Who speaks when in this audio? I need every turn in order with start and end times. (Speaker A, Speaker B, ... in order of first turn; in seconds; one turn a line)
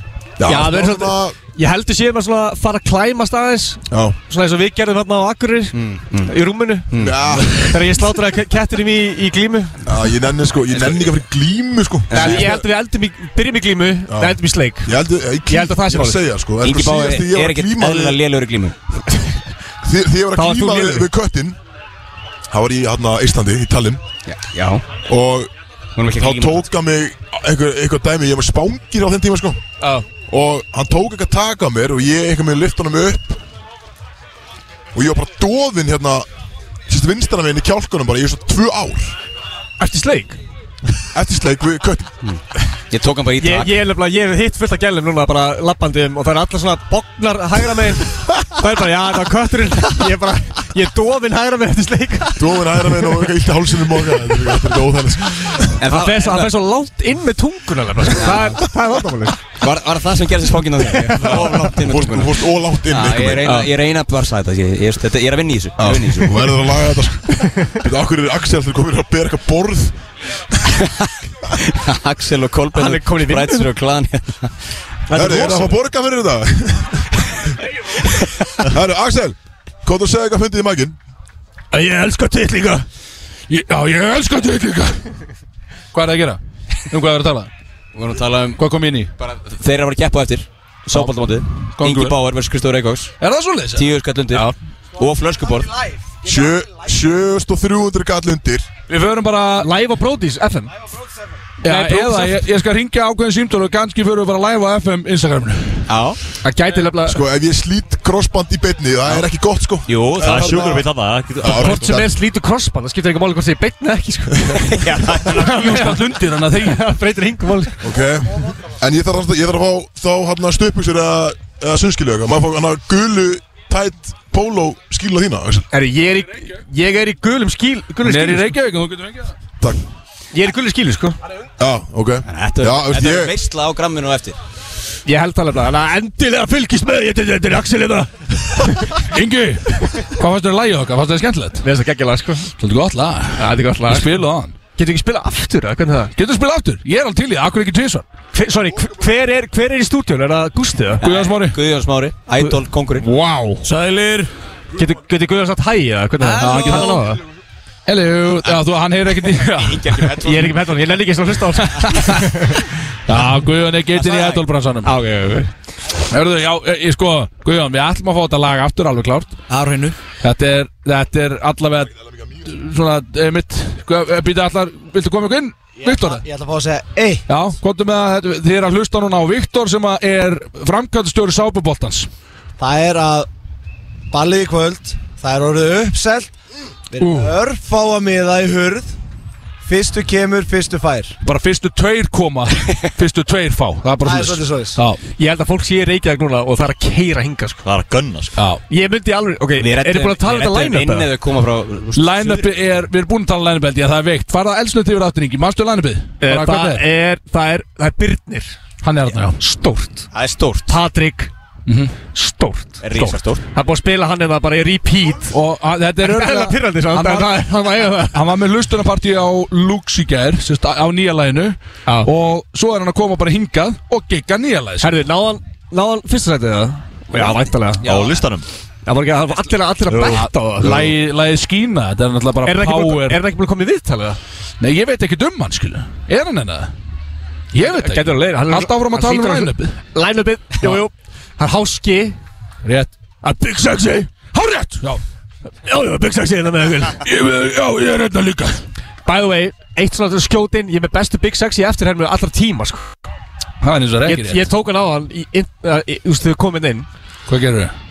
Speaker A: 0.4-1.4
Speaker B: 0.4-6.9
Speaker A: 3.9-4.2
Speaker C: 5.7-6.3
Speaker C: 6.9-7.6
Speaker A: 6.9-8.0
Speaker B: 7.7-9.7
Speaker A: 9.8-12.6
Speaker C: 10.7-11.1
Speaker C: 12.1-12.6
Speaker B: 12.1-14.9
Speaker A: 14.1-18.2
Speaker B: 15.5-16.2
Speaker C: 16.6-18.8
Speaker A: 19.8-21.6
Speaker B: 20.3-21.1
Speaker A: 22.5-24.0
Speaker C: 24.3-24.8
Speaker A: 25.1-25.5
Speaker C: 25.9-26.6
Speaker A: 26.1-29.6
Speaker A: 30.3-33.4
Speaker A: 34.9-36.3
Speaker A: 36.9-39.2
Speaker B: 39.8-40.4
Speaker A: 41.1-42.1
Speaker C: 42.2-43.8
Speaker B: 43.4-52.4
Speaker A: 52.3-55.8
Speaker C: 55.8-56.5
Speaker B: 55.9-59.4
Speaker C: 58.1-58.6
Speaker C: 59.6-66.3
Speaker B: 60.8-61.6
Speaker A: 61.1-63.6
Speaker B: 63.4-63.7
Speaker A: 65.8-69.9
Speaker C: 71.7-74.5
Speaker B: 72.7-73.7
Speaker B: 75.1-75.8
Speaker A: 75.1-77.2
Speaker A: 78.7-81.0
Speaker B: 81.7-82.8
Speaker D: 83.5-85.0
Speaker D: 85.9-87.5
Speaker C: 87.9-88.6
Speaker D: 88.6-89.1
Speaker C: 89.2-93.1
Speaker D: 91.8-92.2
Speaker D: 93.2-93.9
Speaker C: 93.8-95.7
Speaker A: 96.2-98.7
Speaker D: 98.9-99.7
Speaker B: 99.6-100.7
Speaker D: 101.6-105.9
Speaker B: 101.6-102.4
Speaker C: 105.9-106.2
Speaker B: 106.4-107.2
Speaker A: 107.0-110.7
Speaker C: 109.8-110.8
Speaker E: 110.2-112.0
Speaker A: 111.4-112.2
Speaker B: 111.5-114.8
Speaker C: 114.7-115.9
Speaker D: 115.4-116.8
Speaker B: 115.4-116.0
Speaker B: 116.5-117.8
Speaker A: 117.8-125.7
Speaker B: 125.7-128.5
Speaker D: 128.0-129.3
Speaker B: 130.3-131.2
Speaker A: 131.6-133.3
Speaker C: 132.3-134.4
Speaker B: 135.1-138.9
Speaker D: 139.1-141.7
Speaker B: 141.6-142.5
Speaker D: 142.6-144.6
Speaker B: 143.4-144.1
Speaker B: 144.8-146.1
Speaker D: 146.1-148.1
Speaker B: 148.3-151.0
Speaker C: 151.0-153.1
Speaker D: 151.0-151.6
Speaker B: 152.3-153.7
Speaker C: 153.7-154.2
Speaker B: 154.7-157.2
Speaker C: 156.2-157.0
Speaker D: 156.4-157.0
Speaker D: 157.9-160.2
Speaker C: 159.4-160.7
Speaker B: 160.2-162.5
Speaker C: 161.8-162.1
Speaker D: 163.1-164.9
Speaker C: 163.9-165.5
Speaker D: 166.1-169.3
Speaker C: 169.5-169.9
Speaker D: 170.2-171.9
Speaker D: 172.4-176.2
Speaker F: 175.8-177.2
Speaker D: 177.3-182.1
Speaker F: 182.6-183.3
Speaker F: 184.1-186.3
Speaker F: 186.9-188.9
Speaker B: 187.0-187.3
Speaker D: 187.0-187.3
Speaker F: 189.6-191.1
Speaker D: 191.2-195.0
Speaker F: 194.0-194.8
Speaker B: 195.2-197.6
Speaker E: 197.6-198.3
Speaker B: 198.7-201.1
Speaker C: 199.6-202.5
Speaker D: 201.9-206.8
Speaker B: 206.2-208.6
Speaker D: 208.8-209.4
Speaker B: 209.4-210.1
Speaker C: 210.1-210.7
Speaker B: 210.7-211.3
Speaker D: 211.7-211.9
Speaker B: 212.1-215.4
Speaker C: 212.8-213.4
Speaker D: 215.3-217.3
Speaker B: 216.0-218.2
Speaker D: 218.1-224.9
Speaker B: 224.8-227.8
Speaker E: 227.8-228.5
Speaker C: 227.8-228.2
Speaker B: 228.8-230.9
Speaker D: 230.1-233.2
Speaker B: 232.4-234.2
Speaker D: 234.6-236.7
Speaker D: 237.5-239.8
Speaker B: 237.6-242.2
Speaker D: 242.6-242.9
Speaker B: 243.2-244.2
Speaker D: 244.3-245.0
Speaker B: 245.7-247.0
Speaker D: 247.0-248.6
Speaker B: 249.0-253.1
Speaker D: 253.6-254.5
Speaker B: 254.0-256.9
Speaker D: 257.3-257.7